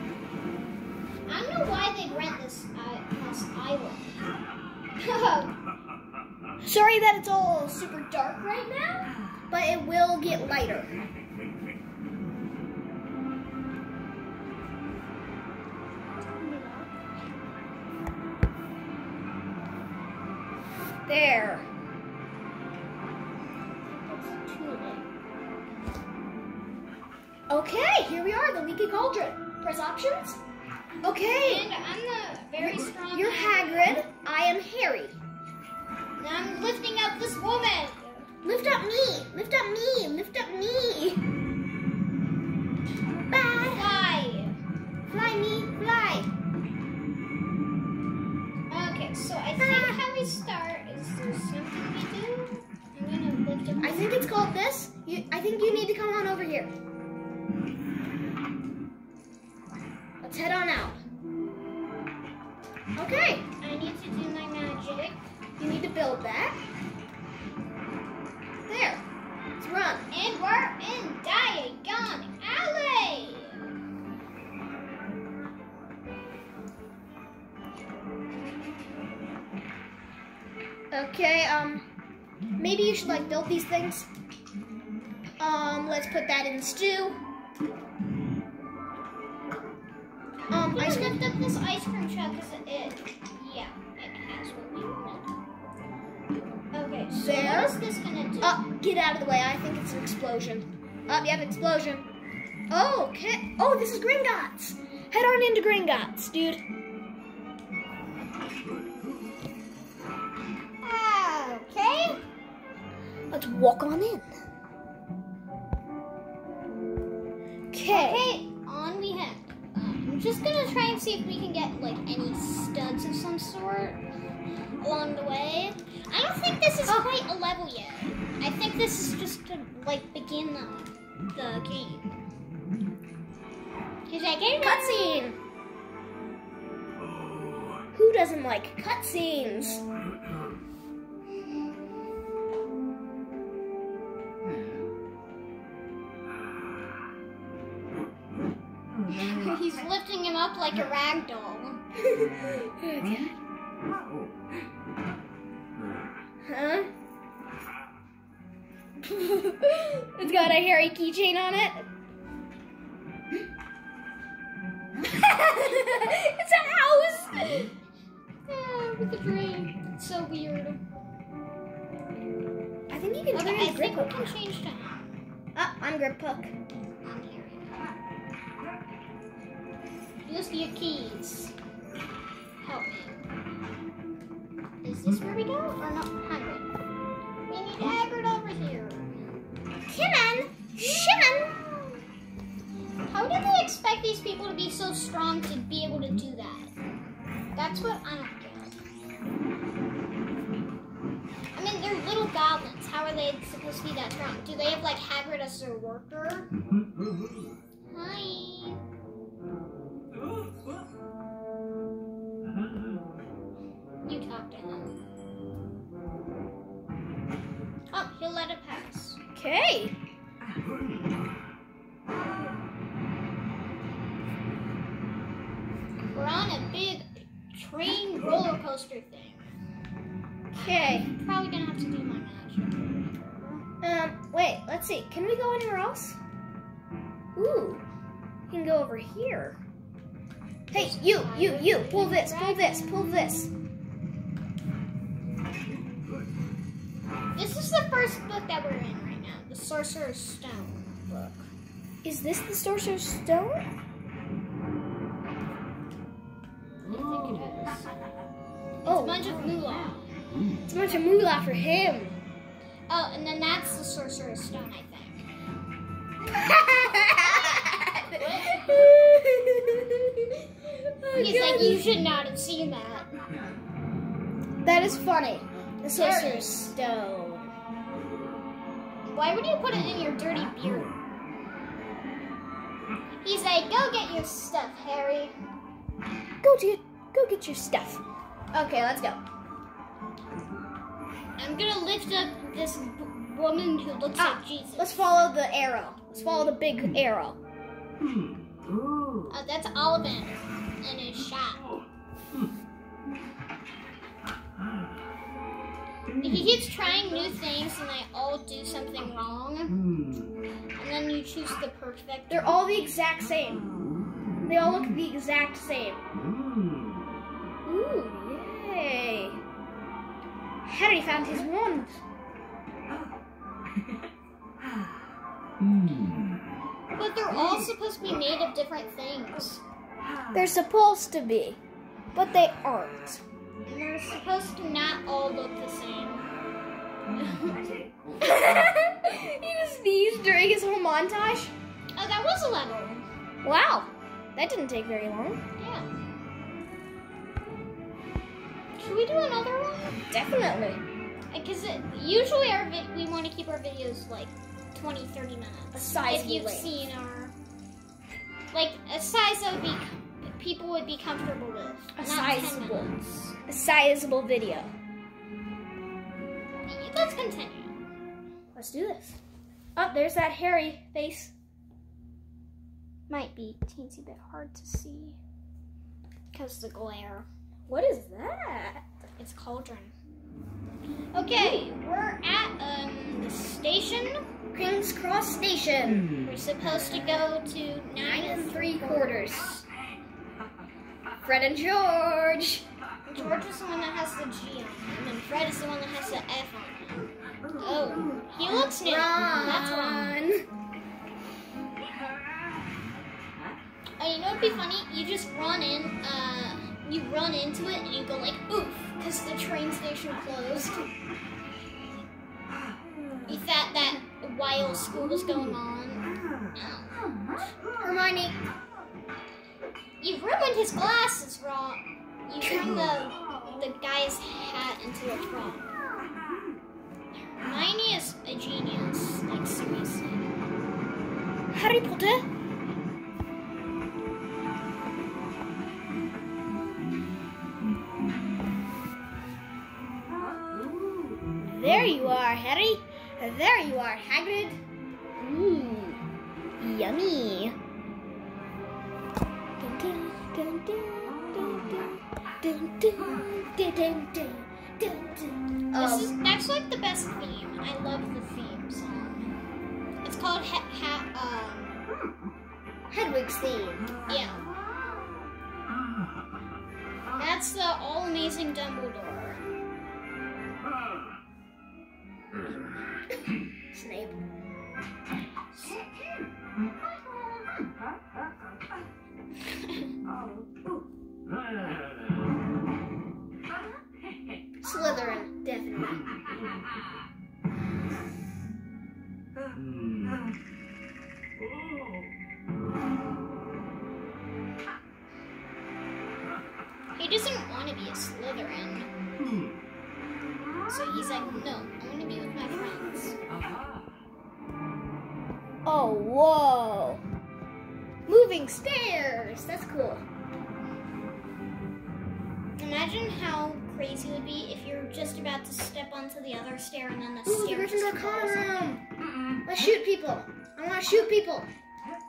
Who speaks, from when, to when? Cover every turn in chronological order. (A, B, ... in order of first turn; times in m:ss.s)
0:01.2-0:04.3 A
0:05.0-0:05.5 A
0:06.6-0:08.4 B
0:08.3-0:09.1 A
0:09.5-0:10.9 B
0:16.4-0:16.9 A
0:21.1-0:21.7 B
0:23.9-0:25.0 A
0:27.5-0:30.4 B
0:31.0-0:31.7 B
0:31.4-0:34.0 A
0:32.6-0:35.2 B
0:36.2-0:38.3 A
0:38.4-0:41.2 B
0:43.3-0:44.1 B
0:43.6-0:44.6 A
0:45.1-0:46.3 B
0:48.7-0:54.5 A
0:49.6-0:50.0 B
0:53.8-0:56.7 B
1:00.2-1:01.0 B
1:03.0-1:03.4 B
1:03.6-1:05.2 A
1:05.6-1:06.6 B
1:08.7-1:09.0 B
1:09.6-1:10.1 B
1:10.1-1:13.6 A
1:20.9-1:21.8 B
1:22.6-1:24.1 B
1:25.4-1:27.2 B
1:30.5-1:31.2 B
1:30.6-1:35.3 A
1:36.7-1:38.6 A
1:37.2-1:37.8 B
1:38.4-1:42.1 B
1:42.7-1:46.6 B
1:50.8-1:52.2 A
1:53.3-1:54.3 B
1:57.7-1:58.2 B
1:57.9-2:04.0 A
2:04.8-2:12.1 A
2:14.1-2:15.2 A
2:14.6-2:15.4 B
2:17.9-2:19.8 B
2:29.1-2:31.8 A
2:32.0-2:33.3 B
2:36.4-2:36.9 B
2:39.0-2:41.9 B
2:45.0-2:47.7 B
2:48.5-2:50.8 A
2:52.9-2:54.3 B
2:53.3-2:55.1 A
2:55.5-2:56.5 B
2:57.0-2:57.8 A
3:00.2-3:01.5 A
3:02.6-3:03.2 A
3:04.8-3:06.7 A
3:07.5-3:09.1 A
3:09.9-3:11.5 B
3:11.1-3:11.9 A
3:13.1-3:16.7 A
3:17.5-3:18.8 A
3:21.5-3:26.5 A
3:27.9-3:28.8 A
3:34.0-3:35.0 A
3:37.9-3:39.2 A
3:39.3-3:39.9 B
3:46.1-3:49.5 A
3:50.5-3:53.6 A
3:50.6-3:51.1 B
3:53.8-3:56.2 B
3:57.4-3:57.8 B
3:58.5-3:59.6 B
4:00.7-4:03.5 B
4:00.7-4:03.5 A
4:07.3-4:11.5 A
4:12.0-4:13.7 B
4:16.8-4:17.9 A
4:18.8-4:19.5 B
4:18.8-4:20.1 A
4:20.7-4:22.2 B
4:22.9-4:25.2 A
4:26.3-4:31.9 B
4:27.2-4:29.0 A
4:31.1-4:33.1 A
4:34.6-4:37.5 B
4:36.0-4:36.5 A
4:39.1-4:40.9 A
4:43.2-4:45.4 A
4:46.4-4:49.2 B
4:51.4-4:55.0 A
4:54.2-4:57.4 B
4:59.3-5:01.7 A
5:06.2-5:09.8 A
5:10.8-5:12.5 A
5:12.3-5:13.7 B
5:14.4-5:16.0 B
5:17.6-5:19.4 B
5:20.6-5:22.0 B
5:26.9-5:29.6 A
5:30.3-5:31.6 B
5:32.1-5:33.2 B
5:33.6-5:36.3 A
5:37.2-5:37.6 B
5:38.2-5:41.5 B
5:42.0-5:43.1 A
5:43.4-5:45.4 B
5:45.6-5:45.9 A
5:48.8-5:50.0 A
5:50.1-5:50.8 B
5:51.3-5:57.3 A
5:55.7-5:56.7 B
5:58.5-6:03.4 A
6:02.0-6:02.9 B
6:03.5-6:04.7 B
6:06.7-6:07.8 A
6:08.5-6:09.2 B
6:09.8-6:11.3 B
6:13.1-6:15.2 A
6:16.3-6:17.3 A
6:17.7-6:18.8 B
6:19.2-6:19.9 A
6:21.1-6:24.2 A
6:21.3-6:21.7 B
6:24.5-6:26.1 B
6:26.2-6:29.4 A
6:28.0-6:29.6 B
6:31.2-6:32.6 B
6:33.0-6:37.1 A
6:37.6-6:40.1 A
6:38.7-6:40.4 B
6:44.0-6:50.9 A
6:53.3-6:57.1 A
6:57.8-6:58.4 B
7:00.0-7:05.7 A
7:07.3-7:10.3 A
7:11.5-7:12.3 B
7:21.4-7:24.6 B
7:25.2-7:26.0 B
7:26.6-7:27.6 B
7:29.6-7:36.1 B
7:35.8-7:39.3 A
7:40.0-7:41.8 A
7:42.9-7:43.9 B
7:44.1-7:44.4 A
7:47.2-7:49.4 A
7:53.7-7:54.2 B
7:55.5-7:56.2 A
7:59.4-7:59.9 A
8:04.6-8:06.0 B
8:17.0-8:18.9 A
8:20.7-8:23.2 A
8:25.6-8:27.0 B
8:28.1-8:30.0 B
8:32.6-8:38.8 A
8:37.2-8:38.8 B
8:39.4-8:41.5 B